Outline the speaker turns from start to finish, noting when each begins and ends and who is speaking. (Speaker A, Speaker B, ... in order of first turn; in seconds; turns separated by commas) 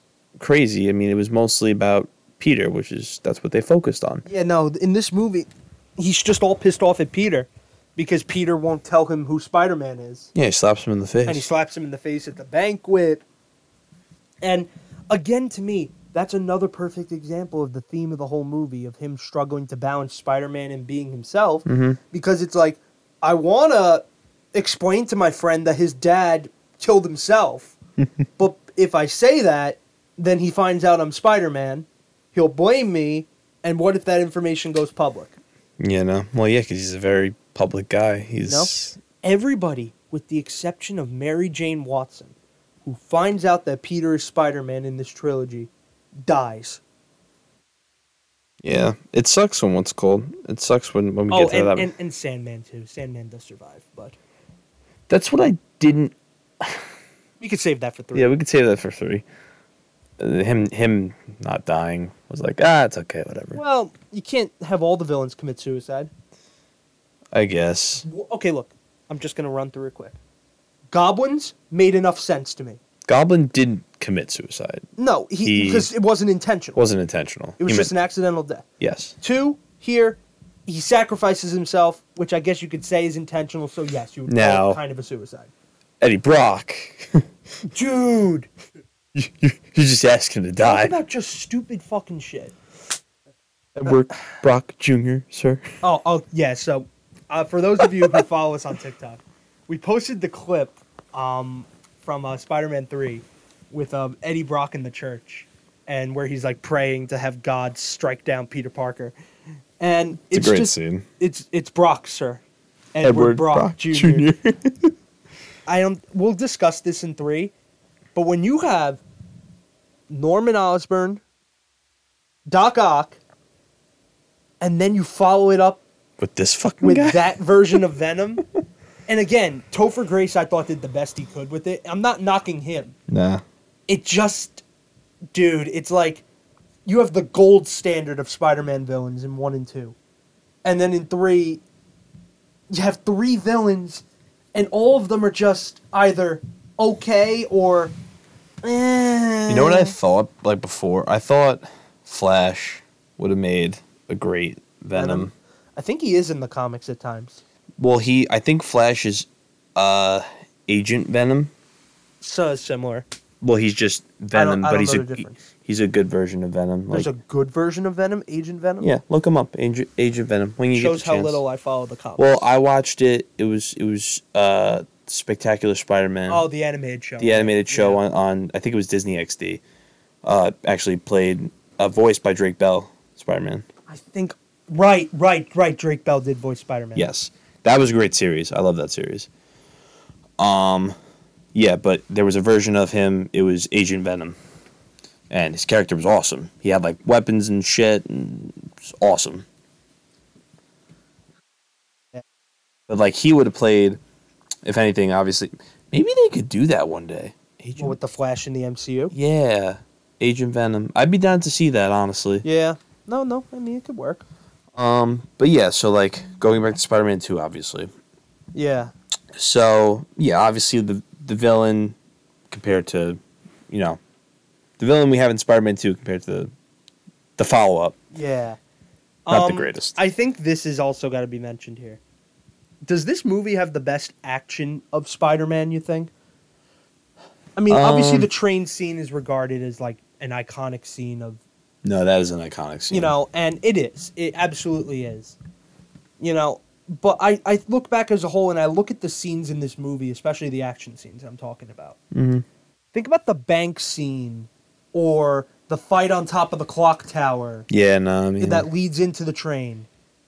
Speaker A: 0.4-4.2, Speaker B: 4.3-10.3, Speaker A: 10.3-11.5, Speaker B: 11.3-13.2, Speaker B: 14.4-27.8, Speaker A: 21.7-22.0, Speaker B: 28.4-35.4, Speaker A: 35.8-39.0, Speaker B: 38.5-45.7, Speaker B: 46.3-46.8, Speaker A: 48.6-51.9, Speaker B: 51.3-54.2, Speaker A: 55.1-56.9, Speaker B: 57.4-58.3, Speaker A: 58.1-59.2, Speaker A: 60.2-63.6, Speaker B: 63.5-66.1, Speaker A: 67.3-68.1, Speaker B: 68.0-70.2, Speaker B: 70.9-72.8, Speaker A: 73.1-74.9, Speaker B: 75.0-76.8, Speaker A: 75.4-75.9, Speaker A: 76.8-77.9, Speaker B: 77.6-78.7, Speaker A: 78.8-79.2, Speaker B: 79.2-85.5, Speaker A: 84.3-84.8, Speaker A: 86.0-87.2, Speaker B: 87.7-88.5, Speaker A: 89.2-91.0, Speaker B: 90.6-92.5, Speaker A: 93.8-95.7, Speaker B: 95.8-109.1, Speaker A: 97.8-98.2, Speaker B: 109.8-112.4, Speaker A: 110.3-111.1, Speaker B: 113.0-114.3, Speaker A: 113.0-114.9, Speaker B: 115.7-117.5, Speaker B: 118.2-119.0, Speaker B: 120.1-121.2, Speaker B: 122.5-123.2, Speaker B: 124.6-125.8, Speaker A: 126.2-127.8, Speaker B: 126.8-128.4, Speaker B: 129.1-132.9, Speaker A: 133.1-133.4, Speaker B: 133.9-134.6, Speaker B: 135.3-136.2, Speaker B: 136.9-140.0, Speaker B: 140.7-141.6, Speaker B: 142.7-144.0, Speaker B: 144.5-147.9, Speaker B: 148.6-150.0, Speaker A: 149.5-155.3, Speaker B: 154.9-157.4, Speaker A: 157.8-161.5, Speaker B: 162.2-163.1, Speaker A: 163.4-167.1, Speaker B: 164.3-165.5, Speaker B: 166.9-168.9, Speaker A: 168.8-171.4, Speaker B: 170.7-172.4, Speaker A: 172.2-176.4, Speaker B: 176.3-178.0, Speaker A: 177.2-179.6, Speaker A: 180.2-183.7, Speaker B: 183.9-187.1, Speaker A: 186.9-189.3, Speaker A: 190.4-190.9, Speaker A: 191.5-194.4, Speaker A: 195.3-199.5, Speaker A: 202.9-204.0, Speaker A: 204.7-208.0, Speaker B: 207.8-209.1, Speaker A: 209.1-212.4, Speaker B: 212.4-214.2, Speaker A: 214.8-217.9, Speaker B: 218.5-218.9, Speaker A: 219.3-222.0, Speaker A: 222.5-223.2, Speaker A: 223.7-224.0, Speaker A: 224.8-226.5, Speaker A: 227.4-228.0, Speaker B: 228.1-228.6, Speaker B: 229.3-232.0, Speaker A: 229.3-230.0, Speaker B: 232.9-236.1, Speaker B: 237.6-241.4, Speaker A: 237.7-238.3, Speaker A: 241.8-243.1, Speaker B: 242.9-245.4, Speaker B: 246.2-252.0, Speaker A: 252.1-252.4, Speaker B: 252.9-257.7, Speaker A: 257.7-258.7, Speaker B: 258.4-259.9